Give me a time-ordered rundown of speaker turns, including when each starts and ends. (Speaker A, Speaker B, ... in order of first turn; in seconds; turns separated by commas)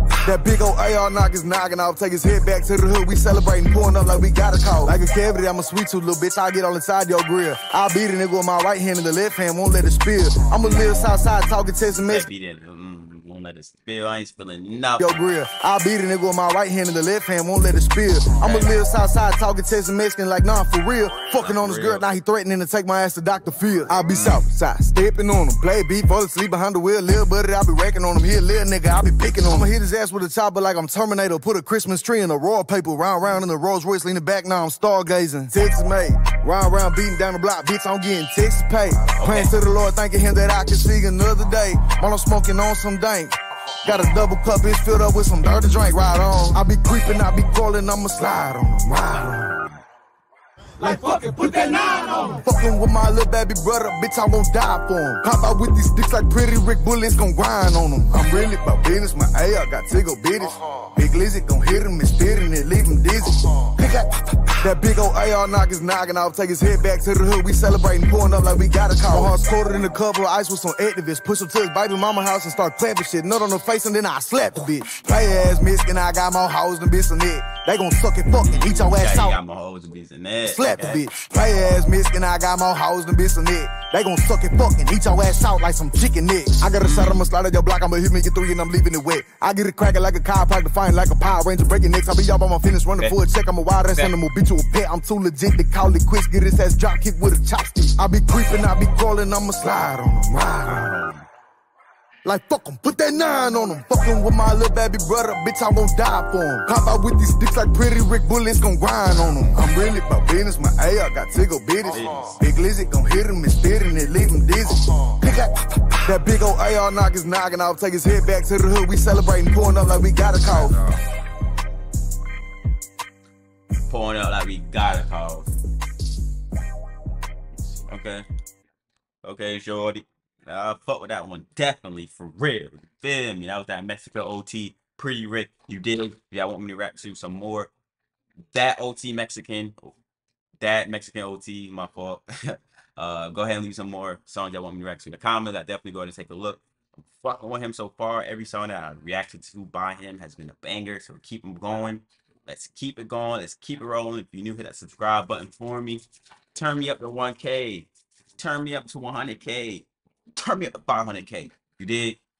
Speaker A: 0.2-12.3, Speaker B: 10.6-11.1, Speaker B: 12.0-15.2, Speaker A: 15.0-49.5, Speaker B: 18.4-18.8, Speaker B: 21.4-22.1, Speaker B: 24.1-24.4, Speaker B: 39.2-39.5, Speaker B: 49.1-49.8, Speaker B: 50.8-51.7, Speaker A: 52.0-64.1, Speaker A: 64.6-79.4, Speaker B: 69.1-70.0, Speaker B: 78.3-81.0, Speaker A: 80.4-100.9, Speaker B: 86.8-87.3, Speaker B: 93.9-94.2, Speaker B: 100.7-101.3, Speaker A: 102.2-115.5, Speaker B: 109.1-109.6, Speaker B: 111.8-112.4, Speaker A: 116.0-120.8, Speaker B: 120.4-121.0, Speaker B: 123.9-125.5, Speaker B: 127.9-128.2, Speaker B: 129.2-137.7, Speaker B: 138.5-139.9, Speaker B: 140.6-162.2